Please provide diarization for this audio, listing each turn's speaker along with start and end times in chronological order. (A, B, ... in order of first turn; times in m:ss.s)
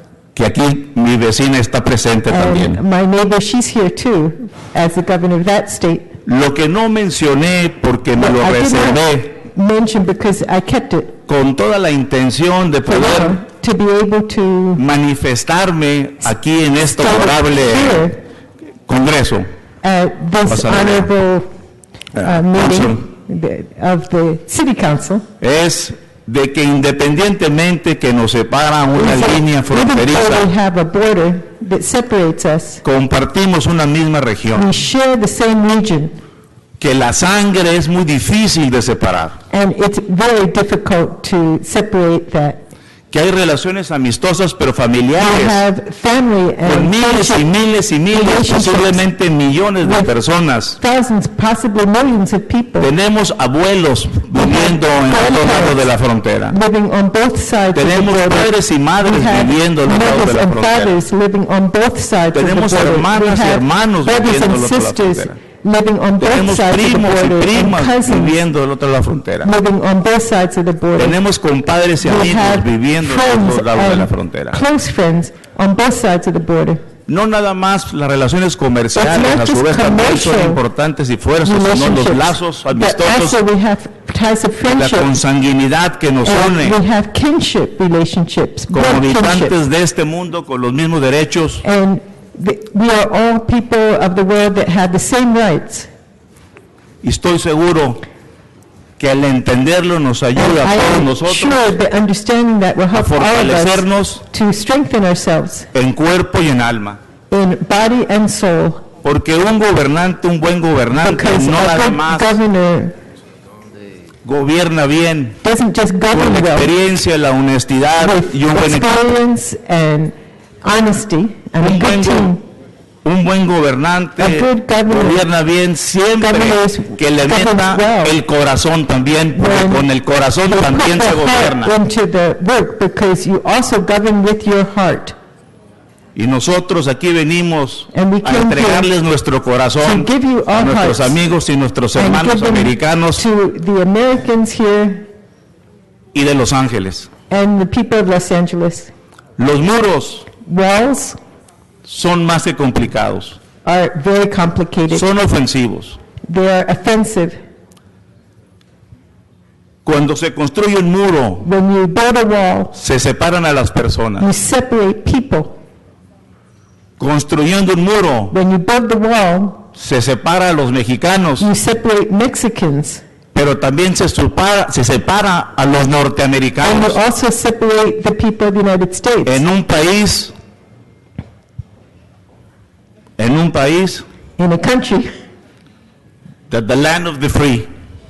0:00.3-0:02.8 A
0:02.3-0:06.1 B
0:06.2-0:09.4 A
0:08.2-0:11.2 B
0:11.3-0:13.4 A
0:12.9-0:14.8 B
0:14.8-0:18.2 A
0:16.9-0:18.2 B
0:18.9-0:19.4 A
0:19.8-0:21.4 B
0:20.5-0:21.1 A
0:22.2-0:23.0 A
0:22.2-0:25.2 B
0:25.4-0:30.5 A
0:28.9-0:32.8 B
0:32.8-0:34.7 A
0:34.5-0:36.1 B
0:36.8-0:39.4 A
0:39.5-0:42.6 B
0:43.1-0:45.6 A
0:45.2-0:47.5 B
0:46.6-0:50.8 A
0:48.1-0:49.0 B
0:49.8-0:50.1 B
0:50.8-0:52.8 B
0:52.8-0:56.6 A
0:54.3-0:55.8 B
0:56.5-0:58.5 B
0:57.7-1:01.0 A
0:59.0-1:08.4 B
1:02.3-1:05.4 A
1:06.2-1:09.5 A
1:09.4-1:11.2 B
1:11.0-1:14.6 A
1:12.0-1:16.8 B
1:17.1-1:23.4 A
1:19.0-1:20.6 B
1:21.4-1:25.1 B
1:24.7-1:26.8 A
1:26.2-1:29.6 B
1:28.7-1:31.6 A
1:31.6-1:35.9 B
1:37.0-1:38.0 A
1:39.0-1:41.7 A
1:40.4-1:45.7 B
1:42.9-1:44.2 A
1:45.7-1:47.0 A
1:47.3-1:48.9 B
1:49.0-1:52.4 A
1:51.0-1:52.9 B
1:54.2-1:55.4 A
1:55.4-1:56.7 B
1:56.1-1:58.9 A
1:58.0-2:00.1 B
2:00.6-2:02.3 B
2:01.6-2:02.3 A
2:03.0-2:11.7 A
2:04.2-2:05.2 B
2:06.2-2:08.1 B
2:09.4-2:09.9 B
2:10.4-2:15.1 B
2:16.2-2:23.2 A
2:17.9-2:18.8 B
2:19.8-2:21.2 B
2:22.0-2:25.0 B
2:26.1-2:27.1 A
2:27.3-2:28.9 B
2:29.4-2:30.3 A
2:30.4-2:31.2 B
2:31.8-2:33.4 A
2:33.6-2:35.0 B
2:34.9-2:36.0 A
2:36.3-2:37.4 B
2:39.8-2:41.5 A
2:41.4-2:42.8 B
2:42.8-2:44.3 A
2:44.2-2:45.5 B
2:47.0-2:48.3 A
2:48.3-2:49.7 B
2:49.7-2:51.5 A
2:51.4-2:53.0 B
2:53.3-2:57.0 A
2:56.6-2:59.4 B
2:59.2-3:00.3 A
3:03.2-3:04.0 A
3:04.4-3:05.1 B
3:06.5-3:07.7 A